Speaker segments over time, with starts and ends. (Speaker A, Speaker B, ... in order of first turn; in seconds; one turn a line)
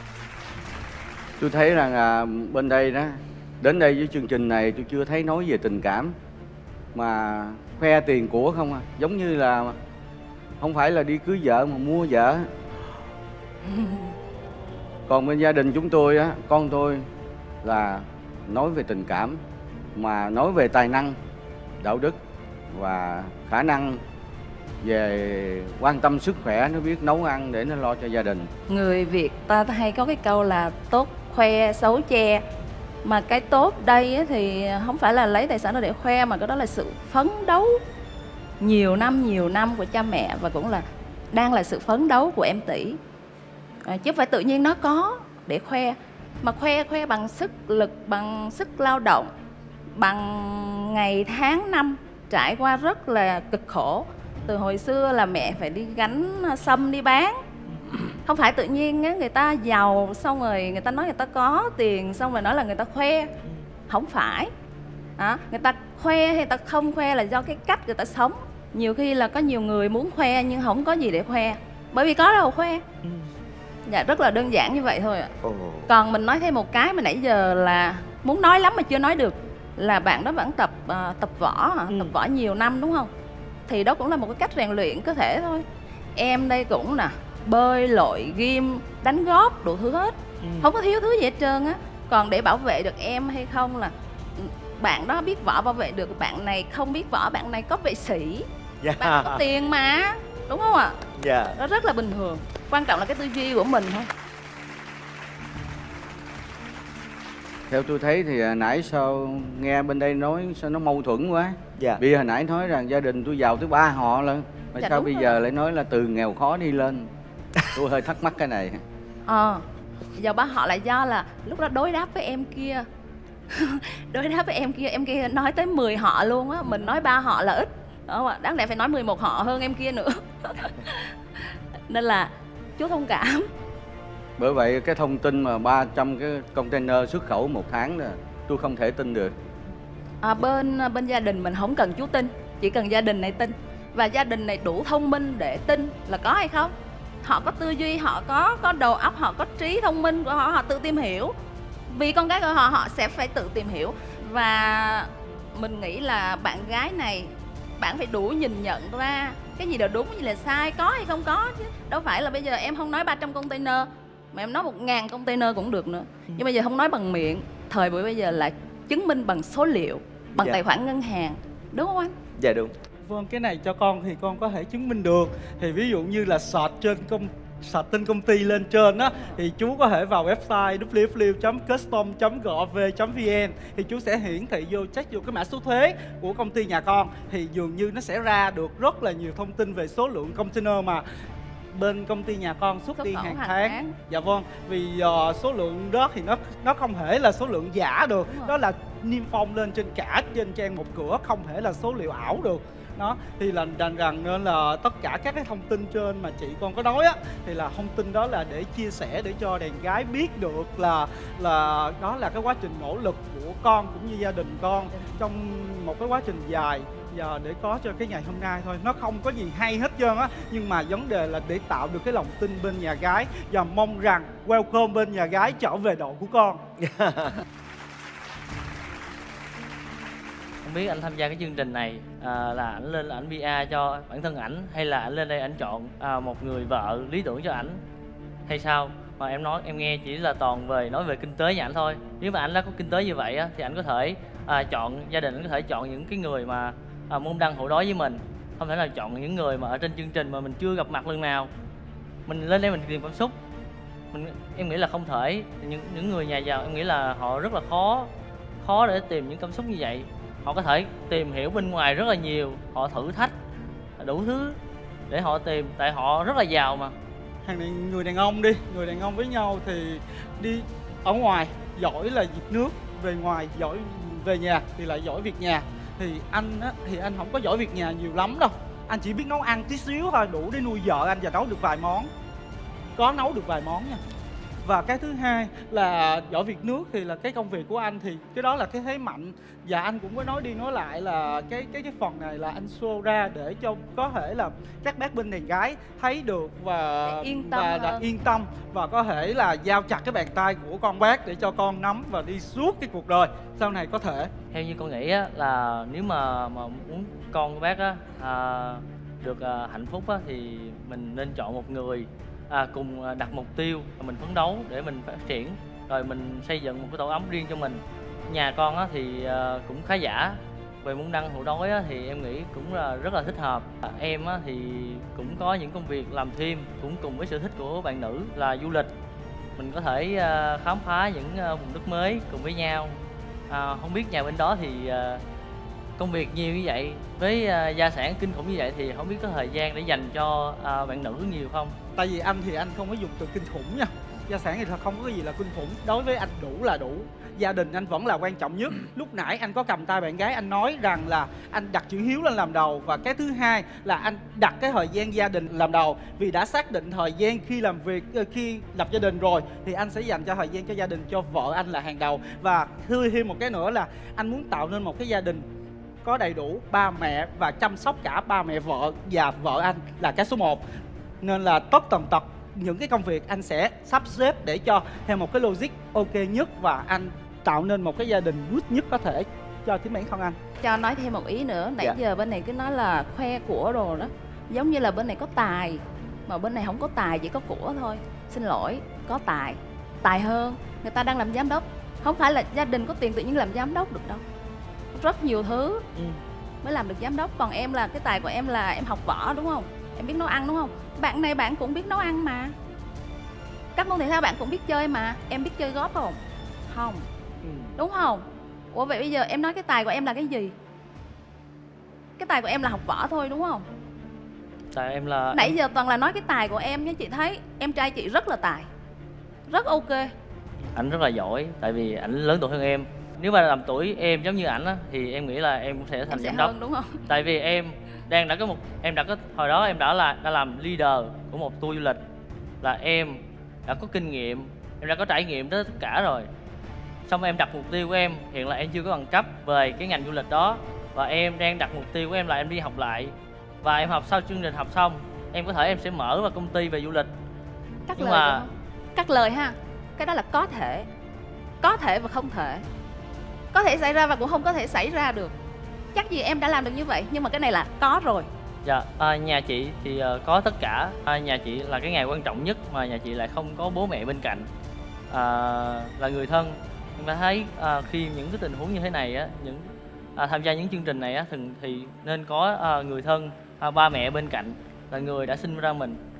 Speaker A: 1.4-6.1
Speaker A: 6.9-9.8
Speaker A: 10.6-12.5
Speaker A: 15.1-17.1
Speaker A: 17.6-19.4
Speaker A: 19.9-21.2
Speaker A: 21.8-22.2
Speaker A: 22.7-24.0
Speaker A: 24.8-28.5
Speaker B: 28.7-32.5
Speaker B: 33.0-37.8
Speaker B: 38.6-43.0
Speaker B: 43.8-49.3
Speaker B: 49.9-57.4
Speaker C: 57.7-58.0
Speaker B: 58.2-63.3
Speaker B: 63.9-64.5
Speaker B: 65.2-72.8
Speaker C: 73.0-73.3
Speaker B: 73.8-75.3
Speaker C: 75.4-75.9
Speaker B: 75.9-83.1
Speaker C: 81.9-82.1
Speaker B: 83.7-98.5
Speaker C: 90.4-90.7
Speaker C: 98.8-99.4
Speaker B: 99.0-101.0
Speaker C: 101.2-101.5
Speaker B: 101.5-104.1
Speaker A: 107.7-117.1
Speaker B: 114.8-115.3
Speaker A: 117.7-118.8
Speaker B: 119.2-122.9
Speaker B: 123.5-131.1
Speaker B: 131.9-133.5
Speaker A: 134.4-139.3
Speaker B: 140.2-151.3
Speaker B: 151.9-172.2
Speaker C: 170.3-170.6
Speaker C: 172.4-172.7
Speaker D: 173.0-191.0
Speaker D: 191.7-226.6
Speaker B: 193.0-193.9
Speaker C: 226.8-227.4
Speaker E: 230.6-237.8
Speaker E: 238.4-251.5
Speaker E: 252.2-253.3
Speaker E: 254.1-258.1
Speaker E: 258.6-263.3
Speaker E: 264.0-264.6
Speaker E: 265.1-266.9
Speaker D: 267.4-282.1
Speaker D: 282.9-284.0
Speaker D: 284.6-304.3
Speaker B: 297.0-298.0
Speaker E: 304.5-328.9
Speaker E: 329.6-333.0
Speaker E: 333.5-335.2
Speaker E: 336.0-341.7
Speaker D: 341.9-365.4
Speaker D: 366.0-370.6
Speaker D: 371.2-380.4
Speaker B: 380.6-394.2
Speaker B: 394.9-395.8
Speaker B: 396.6-402.5
Speaker B: 403.8-407.1
Speaker C: 407.4-407.7
Speaker B: 407.8-410.5
Speaker B: 412.2-413.6
Speaker E: 414.7-415.5
Speaker B: 415.3-418.7
Speaker B: 419.5-420.1
Speaker E: 420.7-426.5
Speaker B: 426.1-427.0
Speaker E: 427.1-432.0
Speaker E: 432.6-436.3
Speaker E: 437.1-447.1
Speaker B: 447.9-450.9
Speaker E: 447.9-448.4
Speaker B: 451.6-452.6
Speaker B: 453.5-455.3
Speaker B: 455.9-458.3
Speaker E: 458.6-464.5
Speaker E: 465.1-476.0